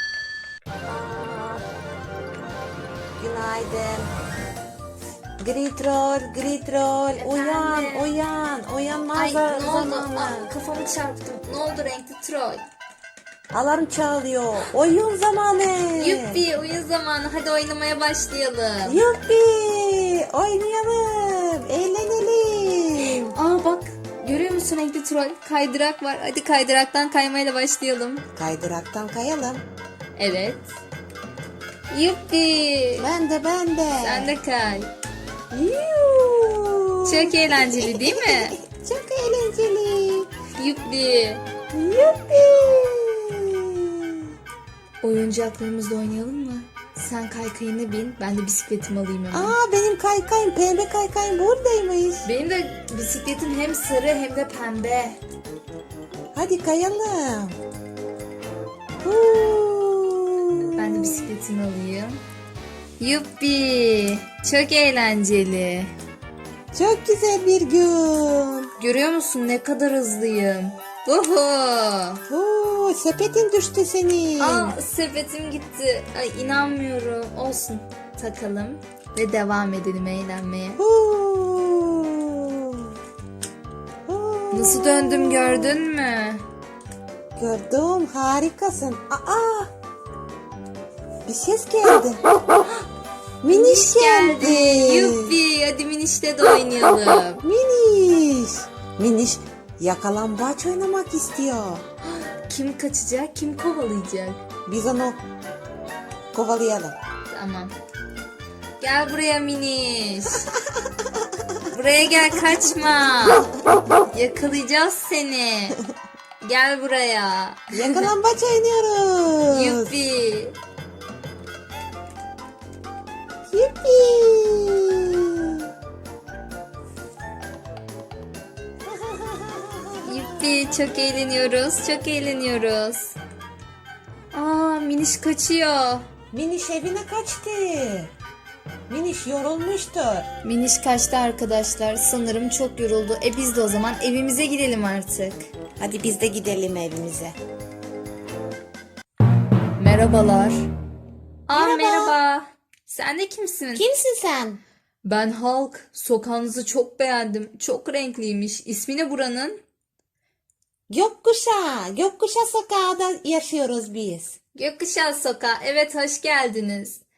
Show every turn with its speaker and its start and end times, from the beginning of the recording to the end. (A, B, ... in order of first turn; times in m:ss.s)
0:00.9-0:01.6 A
0:03.2-0:04.1 A
0:05.4-0:10.5 A
0:07.2-0:08.1 B
0:09.2-0:12.6 B
0:13.5-0:16.4 A
0:16.0-0:19.0 B
0:18.8-0:23.3 A
0:23.0-0:28.2 B
0:28.4-0:29.6 A
0:30.2-0:30.7 B
0:31.9-0:33.1 B
0:33.0-0:34.3 A
0:34.0-0:34.9 B
0:35.5-0:40.3 A
0:37.0-0:38.6 B
0:40.6-0:41.4 B
0:41.7-0:44.3 A
0:45.0-0:49.6 B
0:49.3-0:52.3 A
0:52.2-0:55.2 B
0:56.3-0:57.6 A
0:59.0-1:01.3 A
1:00.8-1:02.2 B
1:03.0-1:05.9 B
1:06.7-1:08.7 A
1:08.8-1:12.2 B
1:12.3-1:14.8 A
1:14.4-1:20.8 B
1:20.8-1:23.0 A
1:24.1-1:25.6 A
1:24.5-1:26.4 B
1:27.4-1:29.7 A
1:31.3-1:32.2 A
1:33.4-1:35.4 A
1:33.5-1:37.4 B
1:37.4-1:41.8 A
1:42.1-1:44.4 B
1:44.7-1:45.2 A
1:46.3-1:47.0 A
1:47.3-1:47.7 B
1:48.8-1:50.5 B
1:51.7-1:53.5 B
1:54.0-1:55.8 B
1:56.4-1:58.1 B
1:57.7-1:59.9 A
1:59.5-2:00.6 B
2:03.5-2:05.7 A
2:08.8-2:10.5 A
2:10.0-2:13.2 B
2:14.3-2:16.0 B
2:16.3-2:18.1 A
2:18.9-2:20.3 A
2:20.4-2:25.4 B
2:25.8-2:27.4 A
2:29.8-2:30.7 B
2:31.5-2:33.9 B
2:31.5-2:32.2 A
2:33.7-2:34.6 A
2:35.0-2:39.6 B
2:40.9-2:44.4 A
2:44.6-2:47.0 B